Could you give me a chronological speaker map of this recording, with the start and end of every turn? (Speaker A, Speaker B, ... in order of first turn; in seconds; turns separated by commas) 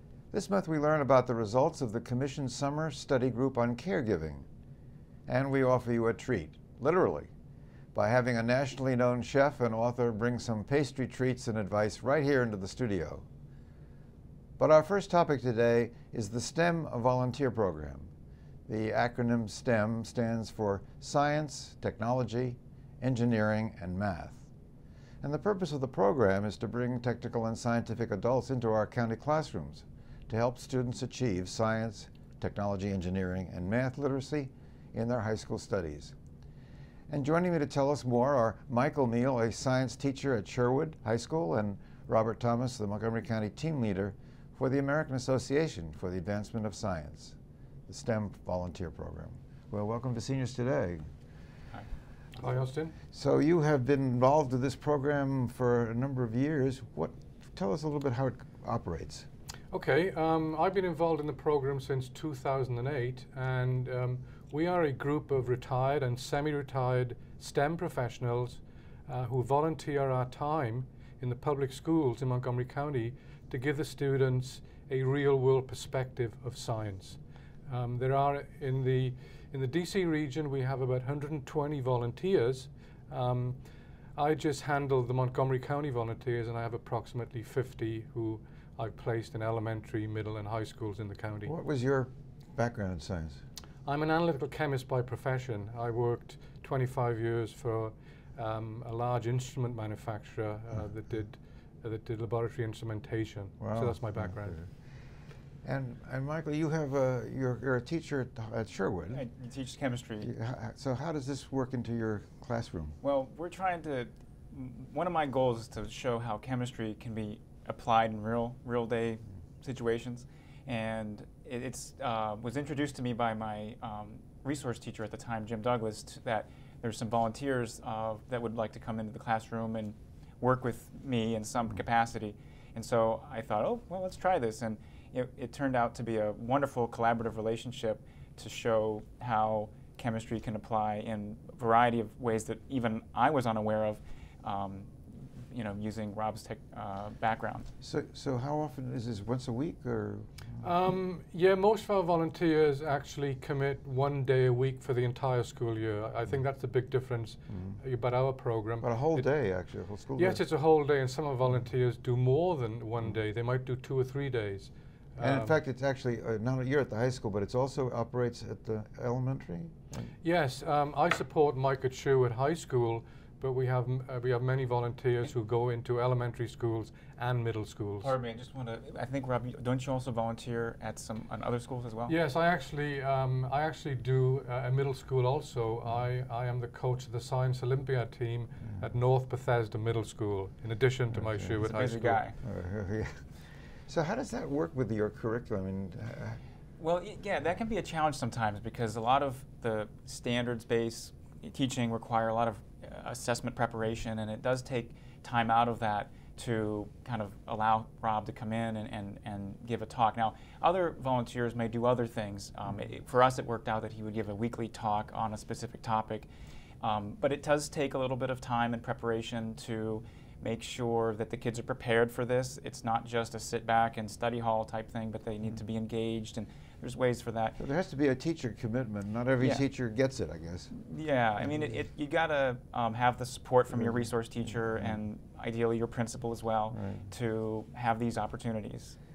Speaker A: 0.3-4.5, Speaker A: 5.3-7.3, Speaker A: 7.9-13.3, Speaker A: 14.6-18.1, Speaker A: 18.7-24.4, Speaker A: 25.2-36.1, Speaker A: 37.1-47.4, Speaker A: 47.9-51.1, Speaker B: 52.4-52.9, Speaker A: 53.1-59.3, Speaker B: 59.7-83.6, Speaker B: 84.2-91.5, Speaker A: 91.4-93.4, Speaker B: 93.8-104.6, Speaker A: 103.6-104.7, Speaker A: 105.6-109.2, Speaker C: 109.1-110.3, Speaker A: 110.2-113.0, Speaker C: 113.0-147.7, Speaker A: 147.8-150.7, Speaker B: 150.6-159.3, Speaker A: 157.5-157.8, Speaker A: 158.8-160.4, Speaker B: 160.2-165.6, Speaker A: 165.2-170.1, Speaker B: 170.2-178.1, Speaker C: 178.0-182.2, Speaker B: 182.1-192.3, Speaker A: 191.1-191.6, Speaker C: 191.6-192.3, Speaker A: 192.4-193.3, Speaker A: 193.9-196.4, Speaker C: 196.8-216.3, Speaker C: 216.8-227.6, Speaker A: 227.6-230.7, Speaker C: 230.7-239.0, Speaker A: 233.8-234.1, Speaker A: 236.7-237.1